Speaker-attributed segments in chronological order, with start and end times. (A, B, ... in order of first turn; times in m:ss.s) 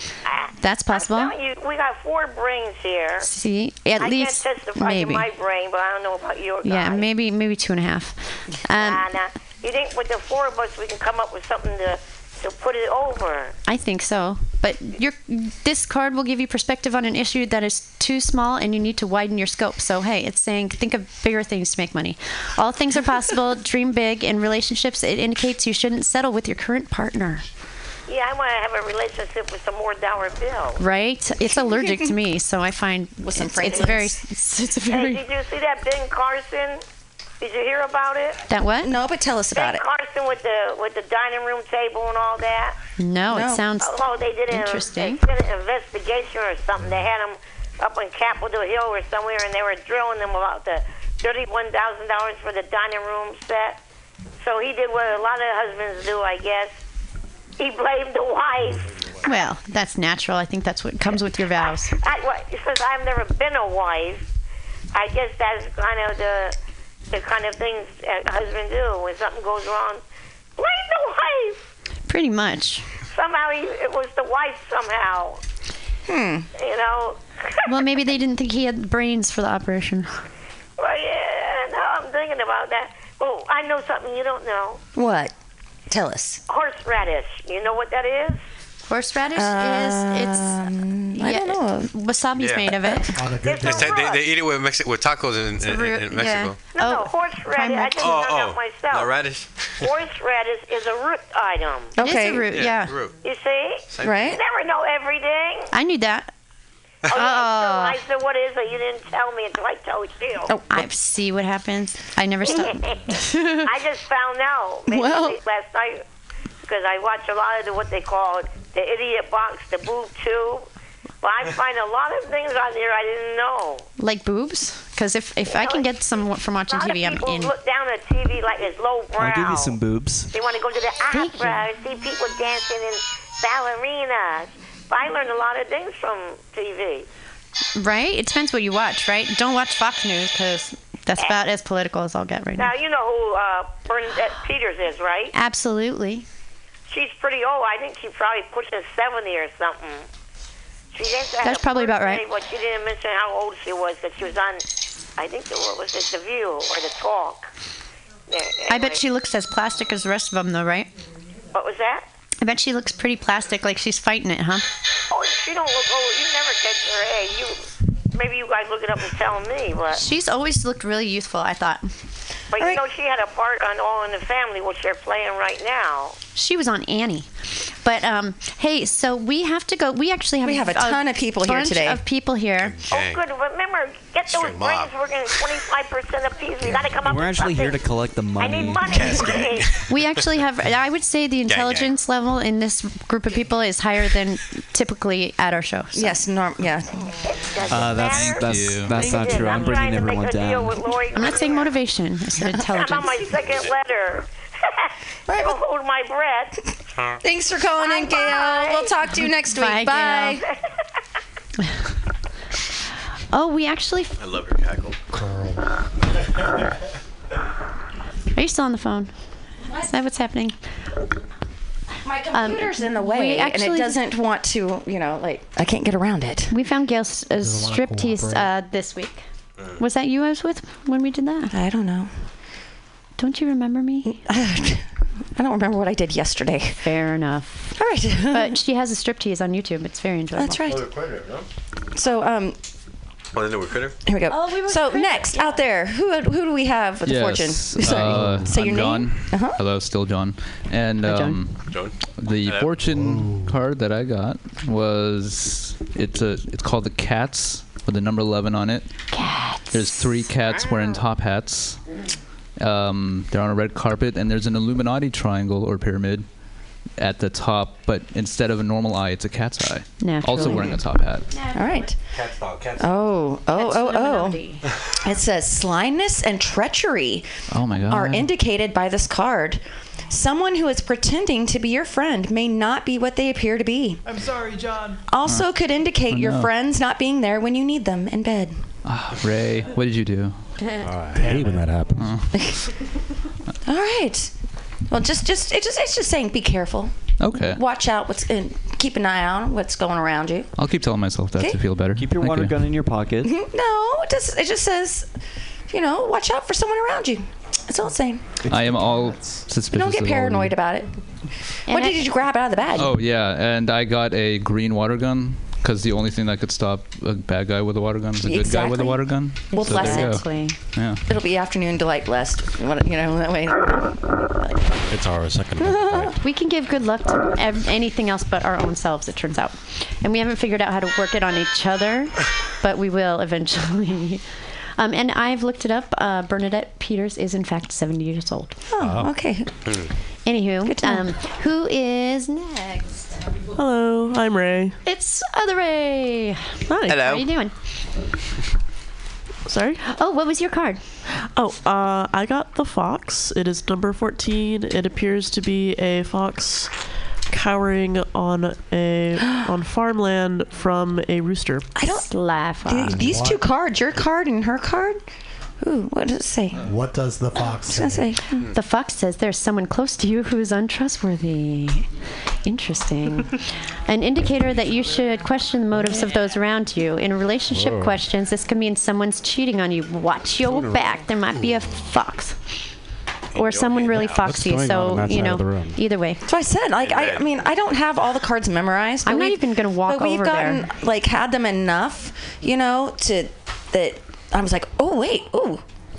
0:00.3-0:03.3 A
0:00.6-0:01.4 B
0:03.2-0:05.2 B
0:04.0-0:07.1 A
0:06.6-0:09.0 B
0:08.7-0:13.6 A
0:13.7-0:27.4 B
0:28.1-0:30.8 A
0:30.8-0:35.2 B
0:31.5-0:32.1 C
0:33.2-0:34.2 C
0:34.9-0:36.8 A
0:37.4-0:38.4 A
0:38.5-0:38.9 B
0:38.8-0:39.8 C
0:39.5-0:42.8 A
0:43.0-0:45.2 B
0:43.3-0:43.6 C
0:43.8-0:53.8 A
0:54.4-0:56.7 A
0:57.6-0:58.9 A
0:59.2-1:02.0 B
1:02.0-1:04.2 A
1:04.9-1:06.6 A
1:07.1-1:10.0 A
1:10.6-1:11.6 A
1:12.1-1:12.8 B
1:13.1-1:15.4 A
1:16.1-1:16.5 C
1:16.6-1:17.8 A
1:17.6-1:20.2 B
1:20.8-1:24.8 A
1:25.0-1:25.3 C
1:25.9-1:26.4 C
1:26.5-1:28.4 A
1:28.9-1:30.6 B
1:29.4-1:31.9 C
1:31.2-1:33.1 B
1:32.4-1:32.7 D
1:33.1-1:34.0 E
1:33.4-1:34.3 A
1:33.6-1:36.6 D
1:35.6-1:38.0 B
1:36.8-1:39.1 A
1:37.9-1:39.9 D
1:39.8-1:42.0 A
1:42.0-1:42.5 C
1:42.0-1:43.0 B
1:42.5-1:43.2 D
1:43.2-1:45.7 A
1:43.9-1:44.4 D
1:44.0-1:44.4 C
1:45.7-1:46.3 B
1:47.1-1:50.5 A
1:47.1-1:48.0 C
1:50.5-1:50.9 C
1:50.7-1:53.7 B
1:52.5-1:56.0 A
1:54.9-1:55.4 C
1:56.7-2:00.7 A
2:01.2-2:03.9 A
2:04.0-2:07.5 B
2:05.5-2:05.9 A
2:06.7-2:09.8 A
2:09.2-2:10.3 F
2:10.3-2:17.1 A
2:11.1-2:11.6 B
2:17.8-2:22.7 B
2:22.6-2:25.3 A
2:25.3-2:26.2 B
2:26.9-2:30.1 A
2:30.9-2:34.6 A
2:31.4-2:32.2 B
2:35.2-2:37.5 A
2:38.3-2:39.0 A
2:38.7-2:40.9 B
2:41.5-2:42.1 A
2:42.4-2:44.7 B
2:45.1-2:50.0 A
2:49.9-2:51.9 B
2:52.5-2:56.2 A
2:56.4-3:02.8 B
3:00.4-3:02.0 C
3:02.6-3:03.2 D
3:02.9-3:07.8 A
3:04.3-3:05.5 D
3:06.6-3:06.9 D
3:07.0-3:09.1 F
3:08.4-3:09.8 A
3:08.9-3:10.3 D
3:09.9-3:16.2 B
3:11.5-3:11.9 D
3:16.0-3:17.2 C
3:17.2-3:21.7 A
3:17.7-3:20.9 F
3:18.0-3:19.2 G
3:21.1-3:23.1 B
3:22.4-3:23.1 C
3:22.7-3:26.6 A
3:25.3-3:25.6 C
3:27.2-3:30.4 C
3:27.8-3:29.0 A
3:29.5-3:30.4 B
3:33.3-3:34.2 B
3:34.2-3:35.0 D
3:35.1-3:35.6 E
3:38.4-3:39.1 B
3:39.7-3:40.6 B
3:42.0-3:46.5 C
3:42.3-3:44.0 B
3:46.5-3:49.2 B
3:47.4-3:48.5 E
3:49.8-3:51.5 B
3:51.5-3:52.1 C
3:53.2-3:54.2 B
3:54.0-3:54.8 C
3:55.4-3:56.9 C
3:56.8-3:57.7 B
3:57.8-3:58.6 C
3:58.3-4:00.7 B
4:00.4-4:00.9 C
4:00.7-4:01.4 D
4:02.0-4:02.6 C
4:03.3-4:04.0 D
4:04.1-4:09.6 C
4:04.3-4:05.6 B
4:07.0-4:18.9 G
4:11.0-4:11.4 B
4:11.7-4:12.8 D
4:12.9-4:13.2 H
4:19.1-4:20.0 B
4:19.7-4:21.8 G
4:22.6-4:26.3 G
4:27.0-4:31.3 G
4:30.0-4:31.9 B
4:30.4-4:30.8 C
4:31.5-4:32.0 C
4:32.1-4:32.9 D
4:32.8-4:34.4 C
4:33.5-4:34.7 B
4:35.0-4:37.3 C
4:37.5-4:38.3 G
4:37.8-4:44.2 C
4:45.1-4:48.6 C
4:45.2-4:45.6 G
4:46.1-4:46.5 G
4:48.8-4:50.4 G
4:50.8-4:52.0 H
4:51.2-4:51.6 E
4:51.9-4:52.4 G
4:53.6-4:54.3 C
4:54.9-5:00.5 C
4:57.2-4:57.6 G
5:00.6-5:02.7 G
5:02.0-5:03.3 F
5:03.2-5:05.1 C
5:05.7-5:08.4 C
5:08.5-5:10.6 G
5:09.7-5:10.9 C
5:11.7-5:13.0 C
5:11.7-5:12.0 B
5:12.8-5:21.0 G
5:18.2-5:20.2 C
5:19.5-5:20.6 B
5:21.1-5:24.8 C
5:24.9-5:26.2 H
5:25.6-5:26.2 C
5:26.2-5:34.2 B
5:34.8-5:38.6 B
5:38.7-5:39.6 C
5:38.8-5:39.1 H
5:40.3-5:43.1 B
5:40.6-5:41.1 C
5:43.6-5:44.8 I
5:44.8-5:47.5 B
5:46.7-5:47.1 I
5:46.9-5:47.2 D
5:49.5-5:49.8 I
5:49.8-5:50.8 B
5:51.1-5:56.7 I
5:57.3-6:01.7 I
5:59.2-5:59.5 C
6:01.8-6:02.1 C
6:02.1-6:03.0 B
6:02.6-6:05.0 C
6:02.9-6:03.4 E
6:05.6-6:06.6 C
6:06.6-6:08.1 E
6:07.7-6:08.4 C
6:08.4-6:11.9 B
6:12.4-6:22.4 B
6:17.5-6:18.0 H
6:20.5-6:20.9 H
6:23.3-6:24.2 D
6:23.4-6:26.2 B
6:24.1-6:25.8 H
6:26.3-6:35.6 C
6:26.8-6:27.3 D
6:29.0-6:30.6 B